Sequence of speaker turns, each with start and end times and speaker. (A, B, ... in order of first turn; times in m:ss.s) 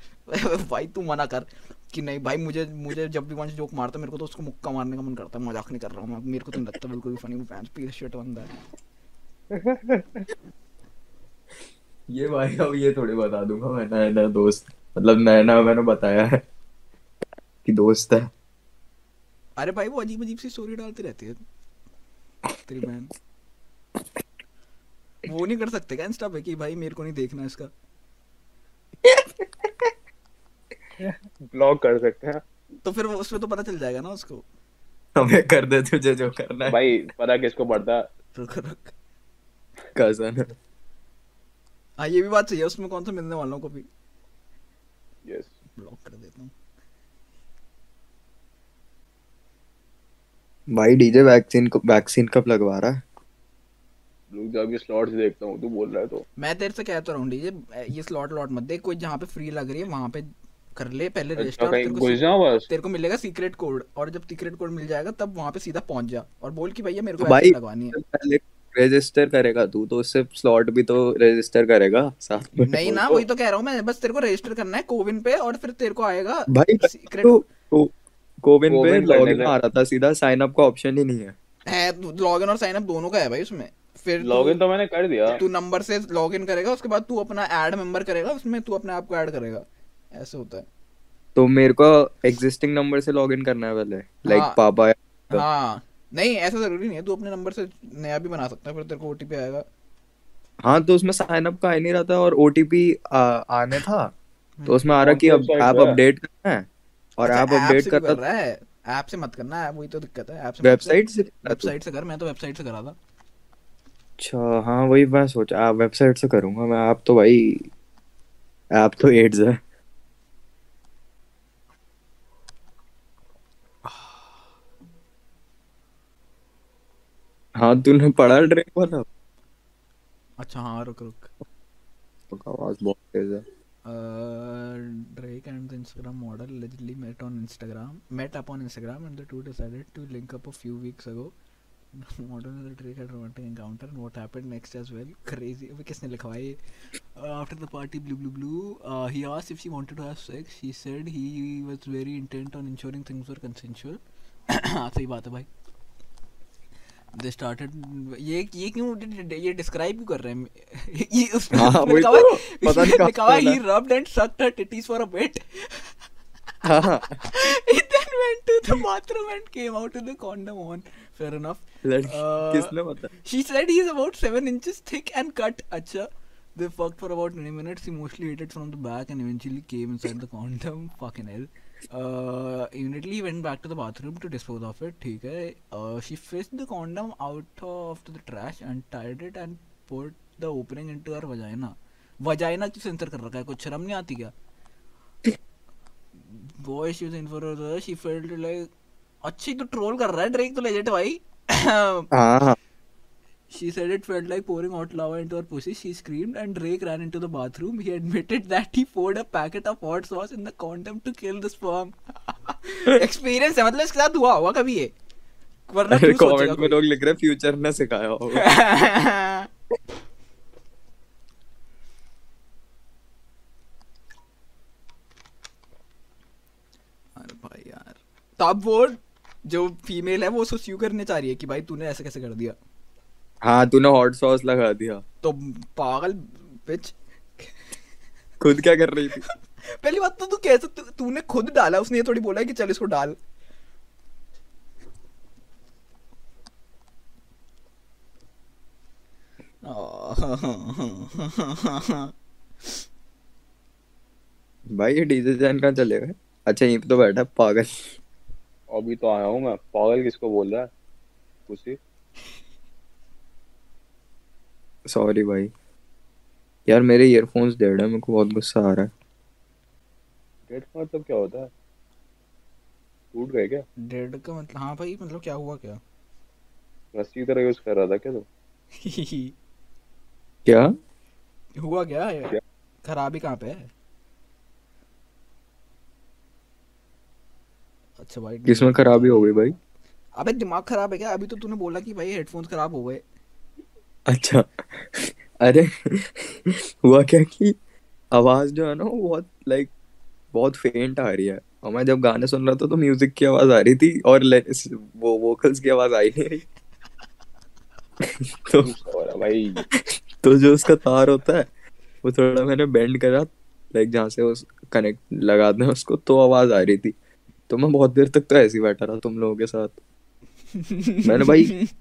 0:00.3-0:08.5 A
0:09.6-0:10.2 B
0:12.1-0:16.4 C
0:17.6-0:18.2 C
0:19.6-0:21.4 A
0:22.7-0:23.1 A
0:25.3-0:27.7 A
0:29.0-0:29.9 C
0:31.0-0:32.4 B
0:32.8-0:34.4 A
0:35.2-0:36.8 C
0:36.7-0:38.0 B
0:38.4-0:38.9 A
0:39.9-0:40.5 C
0:42.0-0:43.9 A
0:45.2-0:45.5 B
0:45.8-0:46.5 A
0:50.7-0:53.0 C
0:54.3-0:56.2 B
0:56.4-1:08.0 A
1:01.4-1:02.7 B
1:07.2-1:12.9 C
1:12.7-1:17.4 A
1:16.5-1:21.3 C
1:18.7-1:19.5 B
1:21.7-1:24.5 A
1:24.2-1:25.4 B
1:25.3-1:29.6 A
1:30.2-1:30.6 A
1:31.4-1:35.4 C
1:34.3-1:34.5 A
1:35.3-1:39.6 A
1:40.6-1:44.1 C
1:44.6-1:46.6 C
1:45.0-1:46.0 B
1:47.2-1:48.2 C
1:47.2-1:53.0 A
1:50.6-1:51.7 C
1:54.2-1:57.7 C
1:58.8-1:59.6 C
2:07.6-2:09.0 C
2:10.4-2:11.3 A
2:12.3-2:13.4 C
2:13.9-2:21.3 A
2:21.9-2:26.6 A
2:27.1-2:35.5 A
2:37.1-2:45.9 A
2:41.6-2:43.6 C
2:46.6-2:47.0 C
2:47.2-2:52.7 A
2:51.8-2:53.1 C
2:53.2-3:14.3 A
3:16.3-3:18.7 A
3:19.2-3:22.0 A
3:22.1-3:22.6 C
3:23.5-3:34.9 A
3:35.7-3:36.8 A
3:35.9-3:38.5 C
3:38.4-3:39.5 A
3:47.2-3:52.6 A
3:53.4-3:55.0 C
3:55.2-3:57.0 A
3:58.4-3:59.2 C
3:59.8-4:03.2 A
4:09.7-4:12.1 A
4:14.8-4:17.7 C
4:18.7-4:20.7 B
4:21.5-4:21.8 B
4:24.9-4:25.5 C
4:26.7-4:28.9 C
4:30.5-4:31.5 B
4:33.1-4:33.6 B
4:33.9-4:35.8 A
4:36.9-4:38.2 B
4:38.8-4:39.3 A
4:41.6-4:42.3 A
4:42.8-4:43.7 A
4:48.0-4:49.3 A
4:48.5-4:49.5 C
4:50.2-4:53.0 A
4:54.1-4:57.5 C
4:58.1-4:59.7 C
5:00.3-5:06.4 C
5:08.4-5:08.7 C
5:08.6-5:09.6 B
5:10.2-5:11.5 C
5:12.0-5:16.9 C
5:17.5-5:19.8 C
5:20.7-5:21.6 A
5:21.0-5:21.5 C